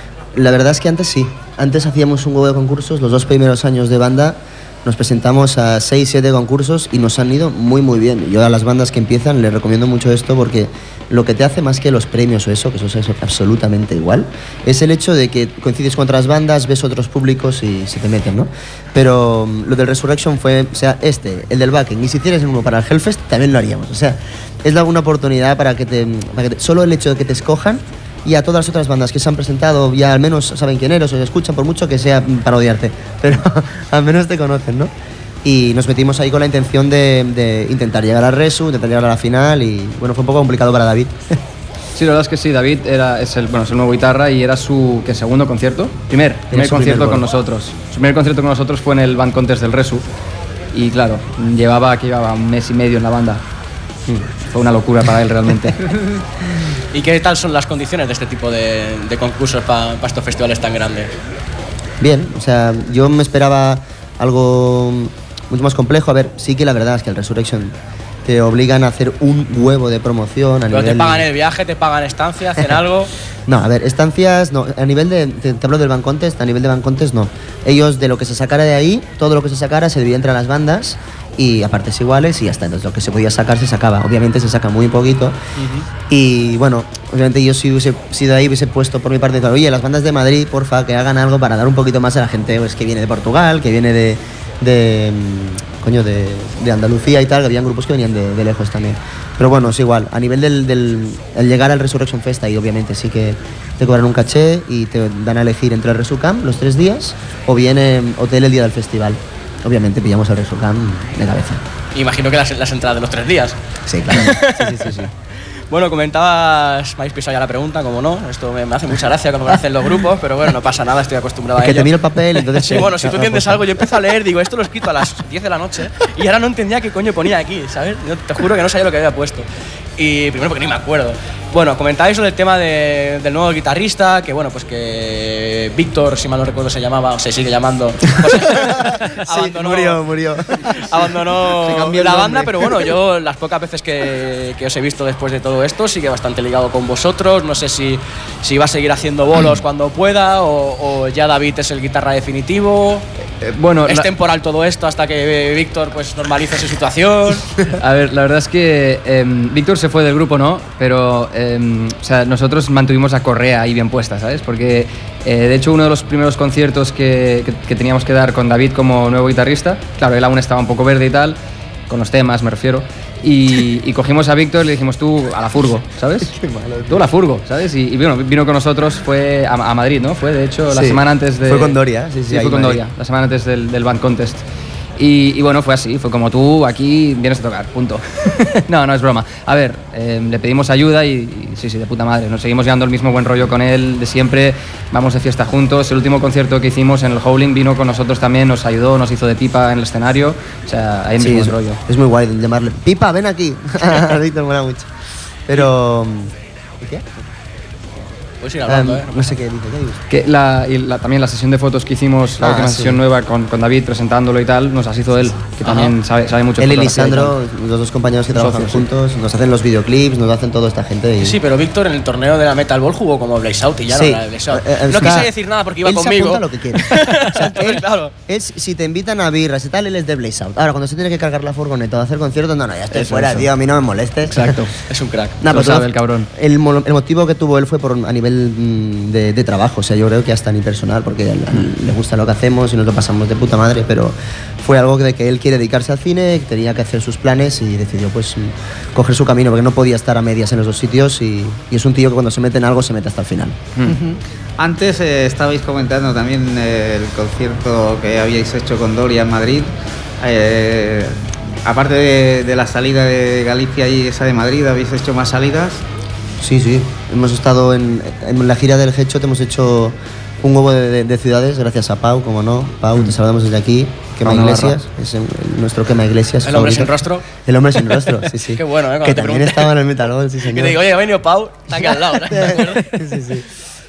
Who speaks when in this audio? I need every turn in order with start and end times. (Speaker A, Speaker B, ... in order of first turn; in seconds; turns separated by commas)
Speaker A: 0.3-34.9, Speaker A: 35.4-41.4, Speaker B: 42.0-50.0, Speaker A: 46.5-47.2, Speaker B: 50.7-53.4, Speaker B: 54.5-55.8, Speaker C: 56.9-61.1, Speaker A: 62.0-71.3, Speaker C: 70.7-73.1, Speaker A: 73.5-85.4, Speaker C: 85.6-85.9, Speaker A: 86.1-111.6, Speaker C: 111.9-113.5, Speaker A: 113.9-115.1, Speaker C: 114.1-114.9, Speaker C: 115.7-129.4, Speaker A: 121.6-123.6, Speaker C: 130.0-140.0, Speaker A: 138.1-142.8, Speaker C: 140.6-153.1, Speaker B: 153.4-154.1, Speaker C: 153.8-157.6, Speaker B: 157.8-171.4, Speaker B: 171.9-176.3, Speaker A: 176.2-177.1, Speaker B: 176.9-184.4, Speaker A: 180.7-182.8, Speaker B: 185.0-201.8, Speaker A: 201.2-204.9, Speaker A: 205.5-207.1, Speaker C: 208.4-209.3, Speaker A: 208.7-210.0, Speaker B: 210.1-217.3, Speaker A: 212.4-213.0, Speaker C: 215.7-215.9, Speaker A: 216.6-221.4, Speaker B: 218.3-218.8, Speaker C: 221.2-228.1, Speaker A: 223.9-225.3, Speaker A: 225.8-234.6, Speaker B: 232.9-233.5, Speaker B: 234.3-234.7, Speaker C: 234.9-235.4, Speaker A: 235.4-253.6, Speaker B: 235.4-236.3, Speaker D: 253.8-265.8, Speaker A: 266.4-280.8, Speaker B: 274.2-274.8, Speaker C: 276.4-277.2, Speaker C: 277.8-279.8, Speaker C: 280.4-283.4, Speaker A: 281.8-283.4